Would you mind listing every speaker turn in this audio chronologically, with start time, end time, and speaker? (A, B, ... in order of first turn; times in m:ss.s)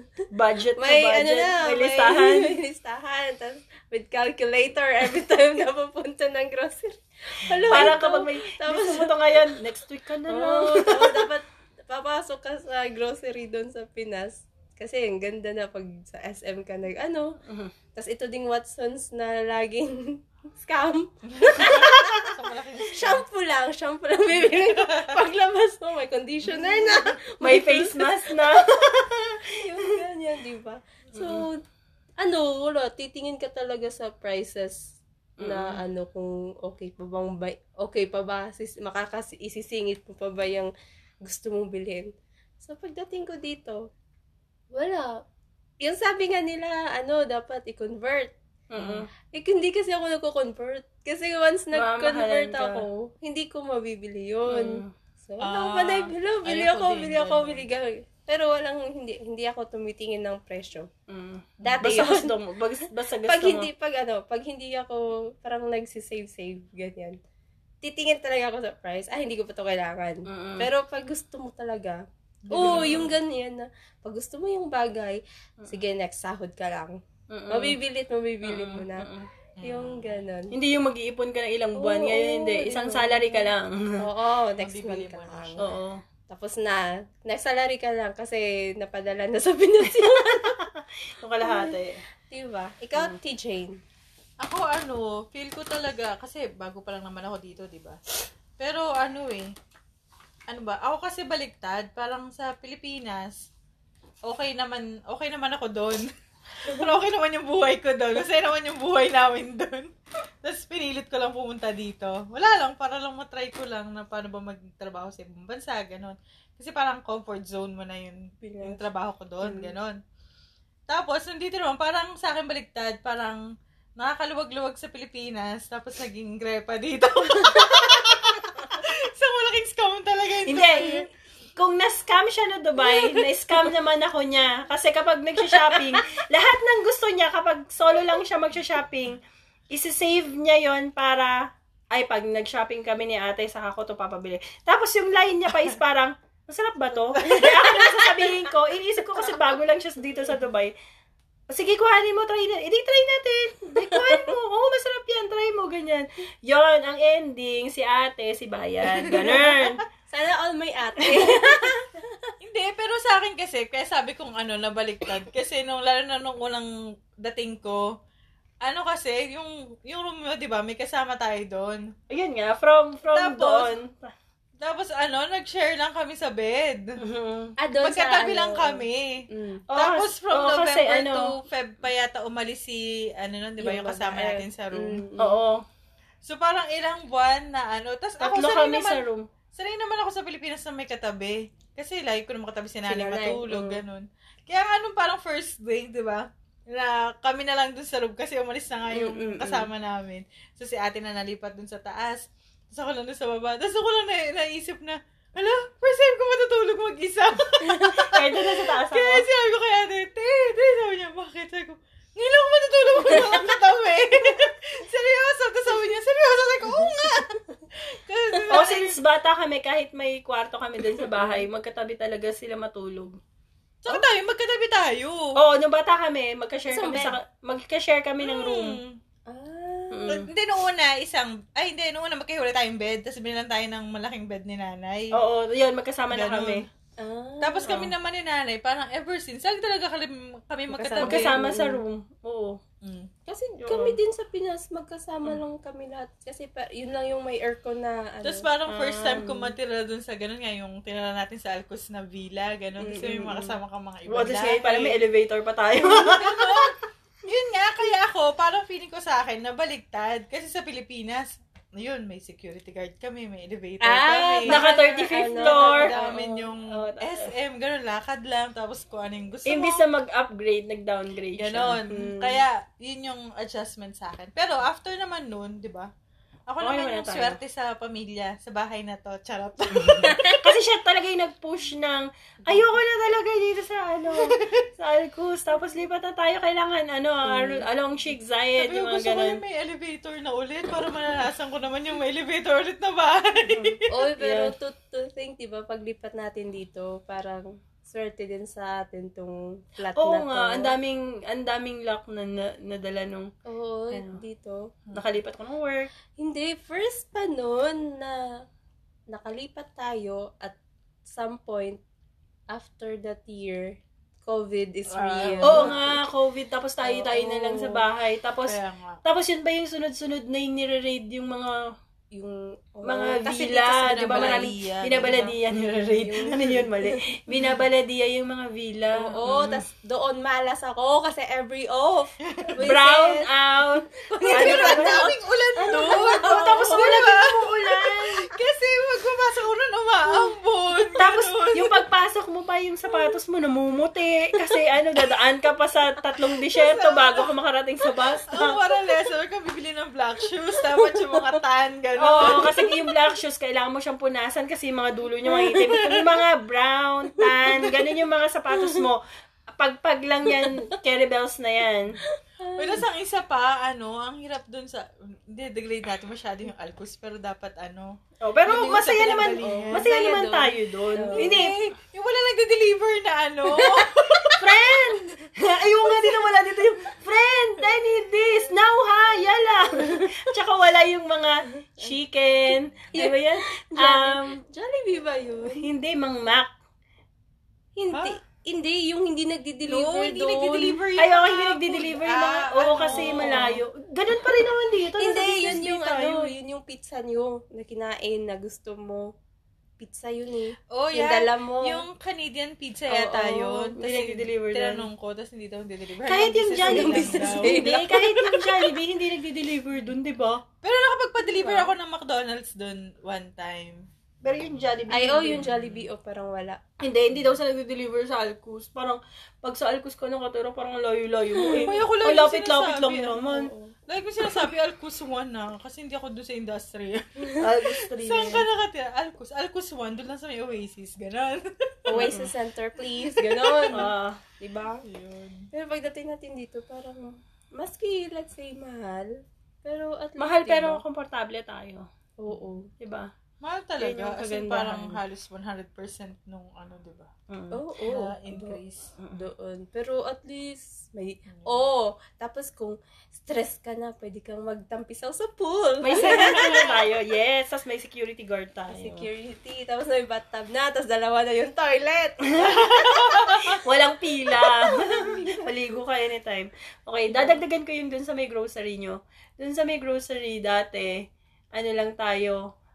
0:00.3-0:02.6 A
0:00.8-0:09.4 B
0:07.4-0:08.0 C
0:07.7-0:11.3 A
0:10.3-0:17.4 B
0:17.4-0:17.7 A
0:18.0-0:22.4 B
0:21.3-0:23.2 C
0:22.9-0:31.6 B
0:24.3-0:25.2 C
0:26.4-0:27.2 C
0:27.4-0:29.8 A
0:31.1-0:31.5 A
0:32.2-0:40.7 B
0:35.4-0:35.8 A
0:41.2-0:42.1 B
0:42.6-0:43.9 B
0:44.7-0:45.2 B
0:45.8-0:48.3 B
0:48.7-0:49.1 A
0:48.8-0:49.1 C
0:49.3-1:00.9 B
0:51.7-0:52.8 A
0:54.5-0:54.9 A
0:55.4-0:57.6 C
1:01.1-1:03.7 A
1:01.6-1:02.4 B
1:03.3-1:07.2 B
1:07.8-1:17.0 B
1:10.3-1:10.7 A
1:12.5-1:13.2 C
1:12.6-1:12.9 A
1:17.3-1:17.8 A
1:17.5-1:19.1 B
1:18.4-1:19.3 A
1:19.6-1:20.2 C
1:19.6-1:20.5 B
1:20.5-1:24.0 A
1:21.8-1:25.6 B
1:24.6-1:25.7 C
1:25.6-1:26.0 A
1:26.3-1:30.6 B
1:29.9-1:32.0 A
1:31.4-1:31.8 B
1:32.3-1:33.8 B
1:34.4-1:38.0 C
1:38.6-1:39.5 C
1:40.5-1:43.5 C
1:44.3-1:46.1 C
1:46.6-2:00.0 C
1:58.4-1:58.8 B
1:59.4-1:59.7 B
2:00.9-2:03.4 C
2:04.0-2:11.1 C
2:10.5-2:30.7 A
2:12.8-2:13.2 B
2:27.2-2:28.0 C
2:31.5-2:39.8 A
2:33.9-2:34.4 B
2:39.0-2:39.8 C
2:40.1-2:42.0 B
2:41.0-2:41.8 A
2:42.4-2:48.0 C
2:48.6-2:51.9 C
2:52.1-2:54.1 A
2:53.1-2:53.8 C
2:54.6-2:57.0 C
2:57.0-2:57.6 A
2:57.6-2:59.6 B
2:57.8-3:05.0 C
2:59.7-3:01.3 A
3:03.6-3:05.4 B
3:05.2-3:05.6 A
3:06.2-3:39.0 C
3:08.2-3:09.3 A
3:12.9-3:13.8 B
3:19.0-3:19.7 A
3:27.8-3:29.3 A
3:38.5-3:43.2 A
3:43.8-3:45.4 C
3:45.4-3:48.8 A
3:46.7-3:47.2 B
3:48.2-3:49.0 C
3:49.3-3:50.2 B
3:49.9-3:50.3 A
3:50.1-3:55.2 C
3:55.1-3:56.7 A
3:56.1-3:56.7 C
3:57.0-3:57.8 B
3:57.4-4:01.3 C
4:00.7-4:01.8 B
4:01.0-4:02.6 A
4:02.8-4:03.1 C
4:03.3-4:08.5 B
4:03.7-4:04.0 A
4:08.2-4:15.0 C
4:08.7-4:09.5 A
4:12.9-4:13.5 A
4:14.1-4:16.7 A
4:15.8-4:29.9 C
4:23.8-4:26.4 B
4:24.5-4:27.3 A
4:29.5-4:32.4 A
4:31.4-4:35.9 C
4:36.5-4:40.3 C
4:36.6-4:37.4 A
4:39.8-4:49.4 A
4:44.1-4:44.6 C
4:47.2-4:47.6 B
4:48.6-4:53.9 C
4:53.5-4:54.5 A
4:53.9-5:00.7 B
5:00.0-5:03.3 A
5:03.5-5:04.7 B
5:03.9-5:04.2 A
5:04.9-5:05.9 A
5:06.2-5:08.2 B
5:09.1-5:11.8 B
5:12.5-5:16.0 B
5:14.9-5:16.0 C
5:15.4-5:21.6 A
5:16.8-5:17.8 B
5:18.4-5:19.0 C
5:22.2-5:25.3 B
5:22.9-5:29.6 A
5:23.6-5:26.3 C
5:25.9-5:27.5 B
5:29.0-5:33.3 B
5:32.3-5:32.6 C
5:32.6-5:35.1 A
5:33.9-5:37.0 B
5:34.2-5:41.8 C
5:35.6-5:38.3 A
5:41.0-5:48.6 A
5:46.6-5:47.3 C
5:48.3-5:52.7 C
5:50.6-5:51.3 B
5:52.0-5:59.0 A
5:52.2-5:52.8 B
5:55.4-5:56.2 C
5:57.2-5:57.7 B
5:58.5-5:58.8 B
5:59.5-6:02.0 A
6:00.3-6:00.8 B
6:02.4-6:02.8 B
6:02.6-6:10.0 C
6:08.2-6:11.6 A
6:09.4-6:11.5 B
6:11.1-6:14.9 C
6:13.5-6:13.9 B
6:14.4-6:24.4 A
6:19.7-6:20.0 B
6:22.9-6:25.7 B
6:25.5-6:26.5 A
6:27.8-6:30.8 B
6:29.7-6:33.6 C
6:31.0-6:36.3 A
6:32.9-6:33.5 B
6:35.0-6:39.1 B
6:39.8-6:41.9 B
6:40.7-6:48.1 C
6:43.1-6:44.9 A
6:46.1-6:50.4 A
6:46.5-6:48.4 B
6:50.6-6:53.9 C
6:51.4-6:51.6 B
6:54.2-6:55.5 A
6:54.9-6:56.6 B
6:55.5-6:55.8 C
6:56.8-7:03.5 A
7:01.4-7:01.8 B
7:01.5-7:03.3 C
7:03.2-7:03.7 B
7:03.9-7:12.2 C
7:07.2-7:07.4 B
7:07.4-7:08.5 A
7:11.9-7:14.8 B
7:11.9-7:12.3 A
7:13.0-7:13.9 C
7:13.7-7:14.2 A
7:14.8-7:15.5 C
7:15.5-7:20.8 B
7:20.2-7:21.9 A
7:22.2-7:22.7 B
7:22.8-7:23.1 A
7:23.4-7:27.1 C
7:23.8-7:25.0 A
7:27.3-7:27.6 A
7:27.5-7:28.6 B
7:27.9-7:28.9 C
7:29.1-7:36.7 B
7:31.3-7:31.6 C
7:35.8-7:39.1 A
7:35.9-7:36.8 C
7:38.7-7:43.6 B
7:42.4-7:52.4 A
7:42.4-7:43.6 C
7:44.4-7:45.5 B